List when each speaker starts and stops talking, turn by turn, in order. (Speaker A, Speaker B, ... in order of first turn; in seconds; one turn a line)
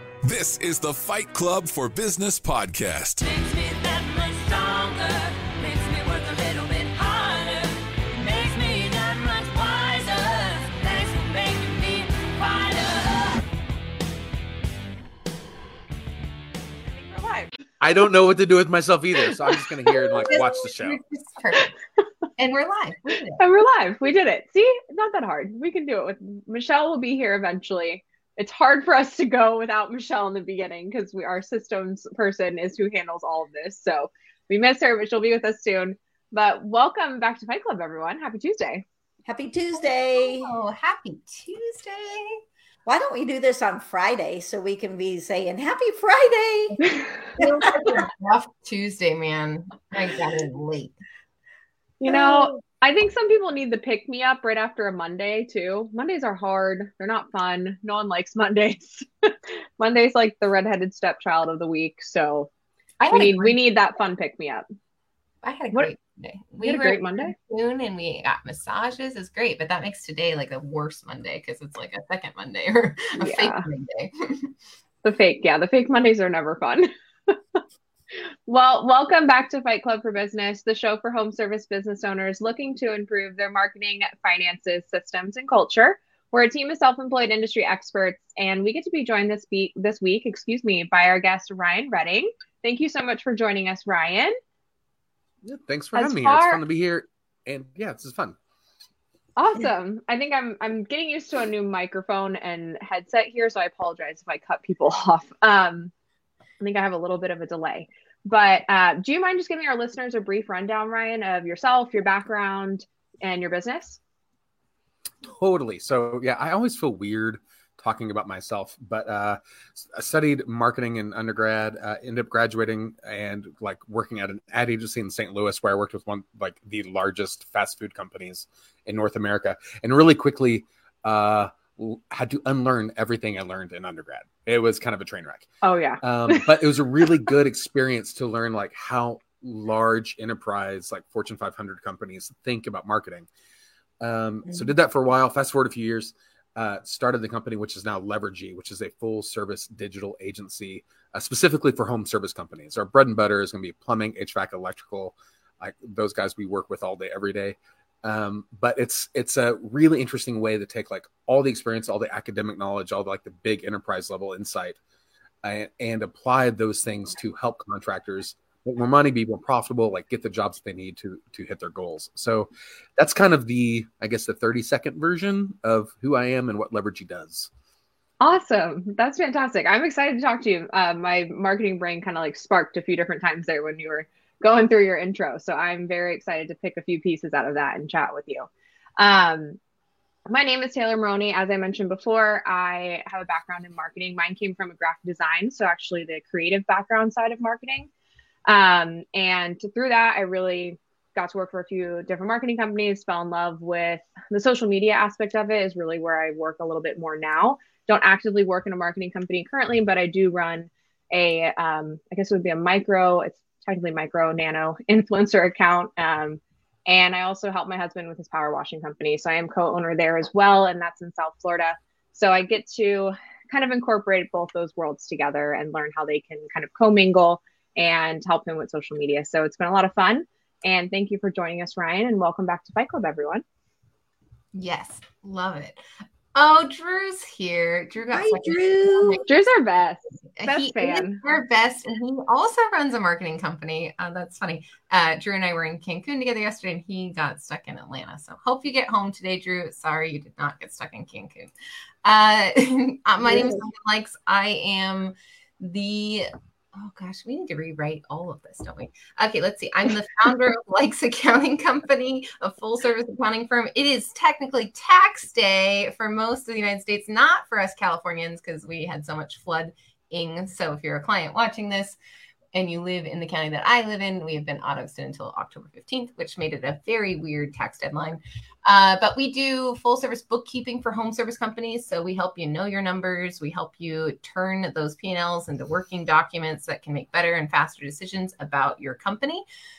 Speaker A: 0.2-3.2
Speaker B: 3.2-13.4
Speaker C: 17.1-17.5
Speaker D: 17.8-21.0
Speaker C: 19.5-20.1
Speaker E: 20.3-21.7
Speaker E: 22.4-23.4
Speaker C: 23.4-38.8
Speaker F: 39.2-40.5
Speaker E: 40.1-42.4
Speaker F: 42.9-46.8
Speaker E: 47.4-51.0
Speaker F: 47.4-48.0
Speaker C: 52.0-62.5
Speaker F: 52.1-52.5
Speaker E: 63.0-63.6
Speaker C: 63.1-64.6
Speaker E: 65.4-74.5
Speaker C: 66.6-67.3
Speaker C: 73.2-73.7
Speaker C: 75.0-77.6
Speaker C: 78.5-94.4
Speaker D: 95.4-98.4
Speaker C: 96.0-96.6
Speaker C: 99.4-105.9
Speaker C: 106.6-114.0
Speaker D: 115.2-135.5
Speaker C: 135.6-137.2
Speaker D: 136.0-143.3
Speaker D: 144.0-164.8
Speaker D: 165.4-177.5
Speaker C: 178.2-189.6
Speaker C: 190.3-197.9
Speaker C: 198.5-233.4
Speaker E: 234.5-235.8
Speaker E: 236.3-239.2
Speaker F: 238.1-239.2
Speaker C: 239.2-241.2
Speaker E: 240.4-251.5
Speaker E: 252.0-272.0
Speaker E: 272.5-289.4